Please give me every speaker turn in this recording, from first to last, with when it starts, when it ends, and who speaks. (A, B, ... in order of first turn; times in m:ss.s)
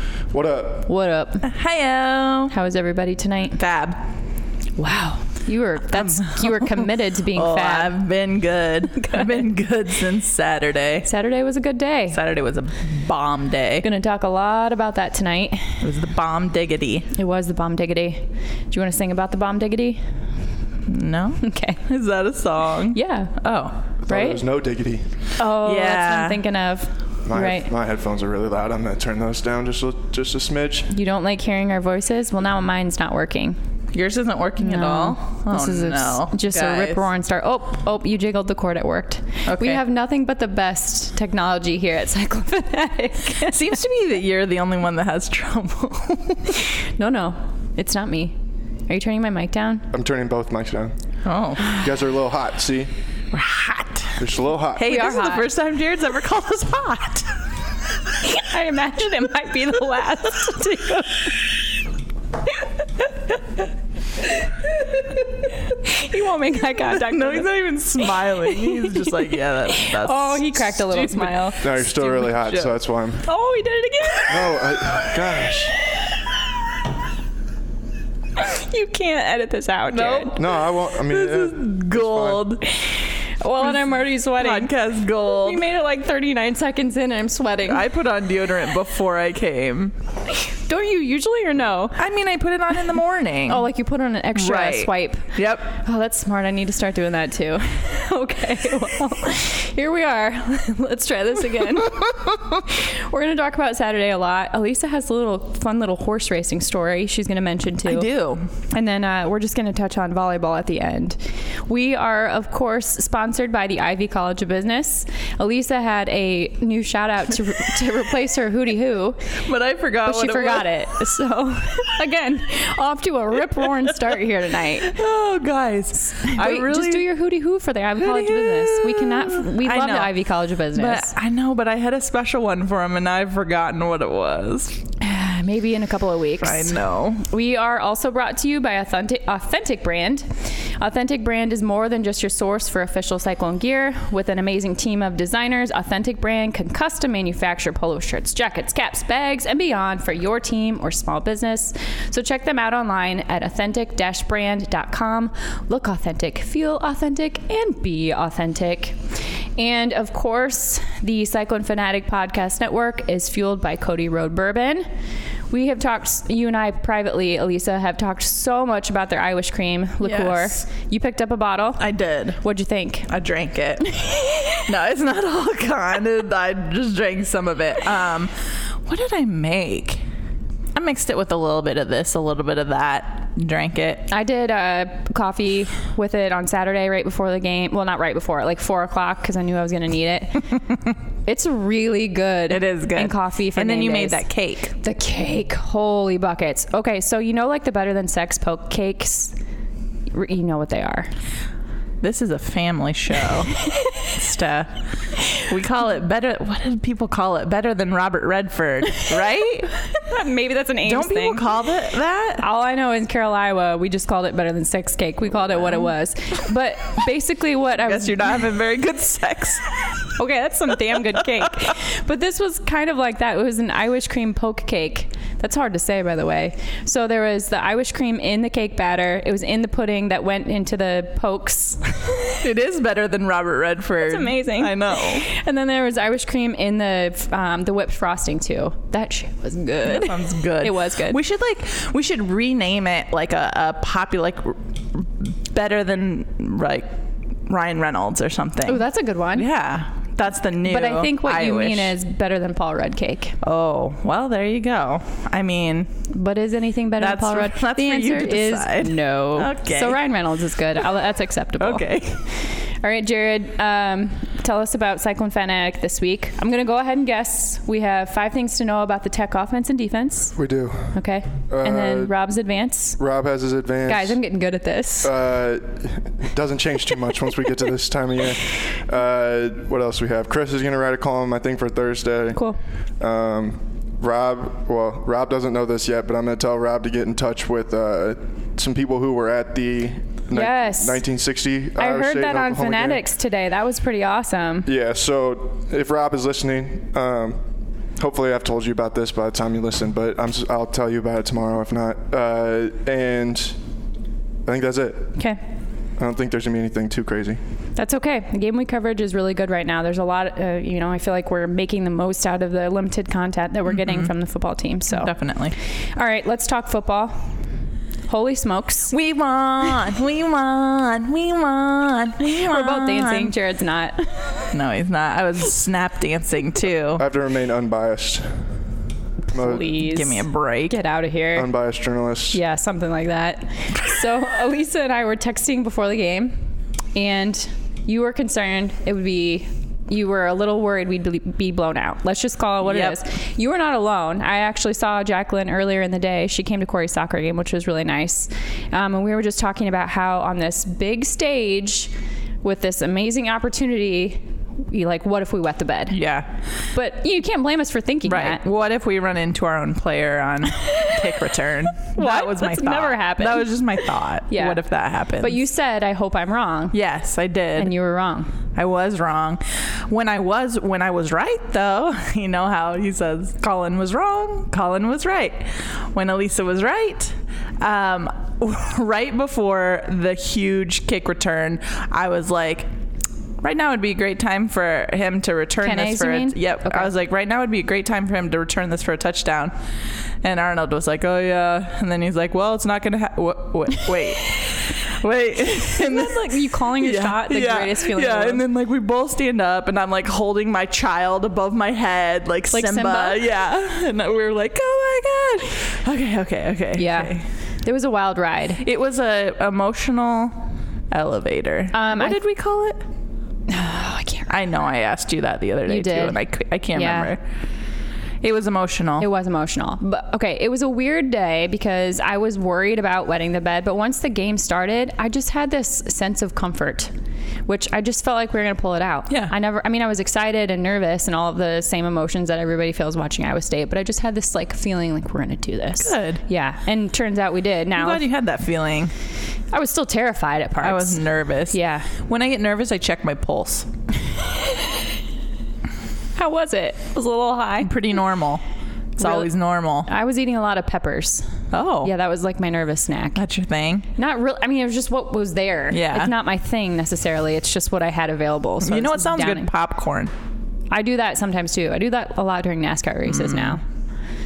0:00.3-0:00.8 A
0:00.9-0:01.5 B
0:01.4-0:02.5 C
0:02.5-0:03.6 B
0:03.6-0:04.1 C
0:04.8-0:08.0 B
0:05.9-0:11.1 C
0:11.1-0:12.2 B
0:12.1-0:13.8 C
0:13.8-0:15.8 B
0:15.8-0:17.1 C
0:17.1-0:20.0 B
0:20.9-0:23.7 C
0:21.4-0:21.8 B
0:22.9-0:23.3 B
0:24.0-0:25.1 A
0:24.1-0:24.4 B
0:25.4-0:27.7 B
0:25.6-0:26.4 C
0:27.2-0:30.9 A
0:30.9-0:33.6 B
0:33.9-0:37.0 C
0:34.6-0:43.8 B
0:39.5-0:39.8 C
0:43.5-0:46.6 C
0:46.7-0:48.4 B
0:48.9-0:49.9 B
0:49.9-0:50.9 A
0:51.2-0:51.8 C
0:51.6-0:52.9 A
0:53.3-0:54.2 C
0:54.2-0:54.9 A
0:54.8-0:57.3 C
0:54.8-0:55.5 B
0:58.2-1:01.5 B
1:04.3-1:11.6 B
1:07.0-1:12.8 C
1:11.6-1:13.2 A
1:13.2-1:15.1 B
1:14.3-1:15.7 A
1:15.7-1:16.2 B
1:18.4-1:20.4 B
1:19.9-1:22.6 C
1:20.3-1:22.6 A
1:22.8-1:27.9 B
1:24.4-1:25.6 C
1:27.7-1:29.9 C
1:30.3-1:32.0 B
1:32.0-1:33.7 C
1:33.5-1:48.1 B
1:34.3-1:35.7 C
1:47.8-1:48.5 C
1:48.7-1:59.3 B
1:59.4-2:00.8 C
2:00.0-2:04.9 B
2:04.8-2:07.1 C
2:06.1-2:11.1 B
2:08.0-2:14.8 C
2:15.0-2:39.0 B
2:16.4-2:17.2 C
2:39.6-2:44.8 B
2:45.5-2:51.8 B
2:50.0-2:50.6 C
2:51.8-2:52.4 C
2:52.4-2:53.1 B
2:53.1-2:53.9 C
2:53.9-2:54.6 B
2:54.5-2:58.3 C
2:58.8-3:00.0 C
3:00.8-3:04.1 C
3:04.1-3:10.4 B
3:11.2-3:14.2 B
3:12.5-3:14.8 C
3:14.8-3:19.3 B
3:20.1-3:21.1 B
3:22.0-3:24.7 C
3:25.3-3:29.7 C
3:30.0-3:31.5 B
3:30.8-3:32.4 C
3:32.4-3:38.4 B
3:37.8-3:39.7 C
3:40.2-3:52.4 B
3:52.4-3:55.2 C
3:54.0-4:01.2 B
3:59.8-4:06.9 C
4:07.5-4:08.8 C
4:08.6-4:09.5 B
4:09.3-4:11.9 C
4:10.6-4:13.4 B
4:13.4-4:15.9 C
4:16.1-4:21.9 B
4:17.0-4:20.0 C
4:21.6-4:22.2 C
4:22.8-4:30.3 B
4:30.4-4:31.0 A
4:30.9-4:33.0 B
4:31.5-4:32.1 A
4:33.0-4:34.2 A
4:33.9-4:35.1 B
4:35.0-4:42.4 A
4:43.0-4:53.0 A
4:50.3-4:51.0 B
4:51.8-4:54.7 B
4:54.6-4:57.4 A
4:58.0-5:03.6 A
5:04.4-5:05.2 A
5:06.0-5:07.4 A
5:07.8-5:15.1 B
5:13.7-5:14.1 C
5:14.9-5:15.6 C
5:15.9-5:17.2 B
5:18.1-5:18.9 B
5:18.9-5:23.3 C
5:22.2-5:24.5 B
5:24.5-5:27.0 C
5:27.0-5:28.3 A
5:29.3-5:31.5 B
5:29.3-5:29.6 A
5:29.7-5:30.8 C
5:31.3-5:32.4 A
5:32.3-5:36.4 B
5:36.9-5:51.9 B
5:42.6-5:43.0 C
5:52.4-5:56.0 B
5:55.9-5:56.3 C
5:56.7-5:58.4 B
5:58.1-6:05.4 C
6:00.6-6:01.0 B
6:01.9-6:04.6 B
6:05.2-6:06.8 B
6:06.7-6:07.7 C
6:07.6-6:08.3 B
6:08.6-6:22.7 C
6:23.4-6:29.5 C
6:25.6-6:26.9 B
6:30.2-6:36.3 C
6:35.6-6:38.4 B
6:36.8-6:47.2 C
6:42.5-6:43.2 B
6:46.8-6:48.6 B
6:48.6-6:52.8 C
6:51.7-6:52.2 B
6:53.5-6:54.3 B
6:54.3-6:57.2 C
6:55.7-6:56.2 B
6:56.7-6:57.1 B
6:58.2-6:59.1 C
6:59.0-7:06.9 B
7:07.5-7:18.0 B
7:15.8-7:16.2 C
7:17.7-7:18.9 C
7:19.5-7:21.9 B
7:20.6-7:23.7 C
7:26.2-7:27.7 B
7:27.6-7:28.4 C
7:29.0-7:29.9 C
7:29.0-7:29.3 B
7:29.9-7:31.3 B
7:31.5-7:31.9 C
7:31.8-7:33.2 B
7:33.2-7:33.9 C
7:34.0-7:39.5 B
7:35.7-7:36.1 C
7:38.6-7:40.1 C
7:40.7-7:43.6 B
7:43.1-7:43.6 C